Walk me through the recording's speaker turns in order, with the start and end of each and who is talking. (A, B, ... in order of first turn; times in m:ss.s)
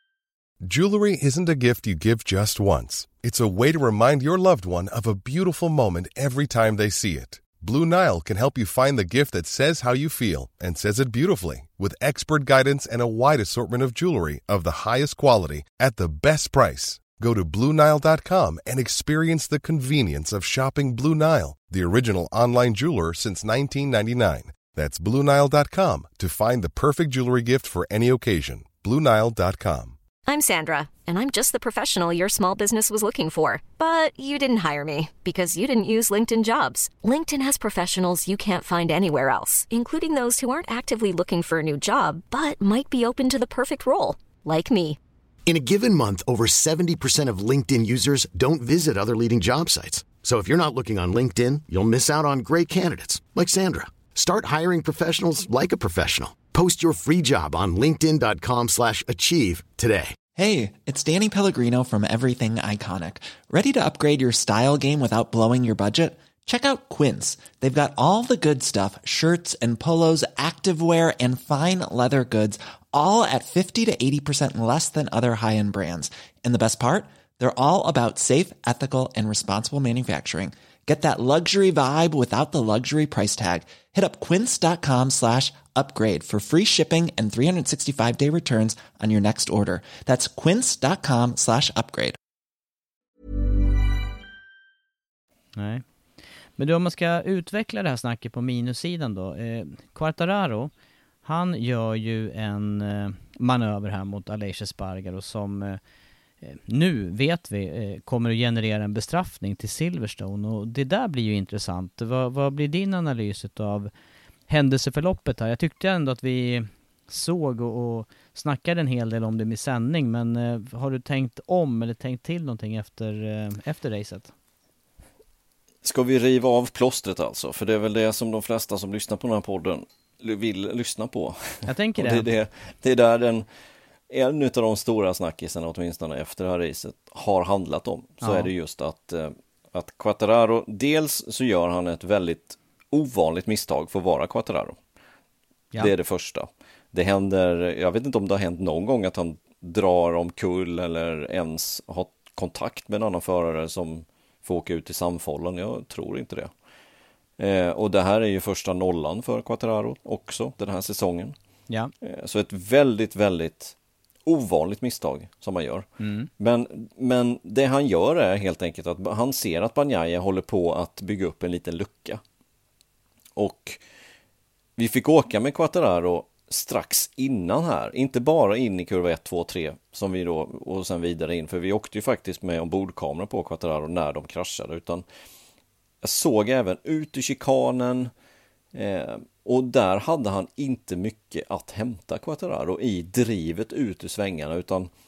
0:00.6-0:30.0 A
0:30.2-0:45.0 B
0:45.4-1:00.2 C
1:00.3-1:32.2 D
1:35.6-1:35.8 E
1:36.6-1:40.7 E
1:41.2-1:45.8 E
1:46.4-1:53.9 E
1:54.5-2:04.3 E
2:05.8-2:13.4 F
2:11.6-2:12.2 E
2:14.1-2:24.8 F
2:18.2-2:18.5 E
2:25.8-2:36.5 F
2:37.4-2:41.3 F
2:42.0-2:45.9 F
2:46.0-2:46.3 E
2:46.4-2:52.2 F
2:53.4-2:53.8 F
2:54.8-3:05.0 F
3:06.0-3:08.1 F
3:08.7-3:14.9 F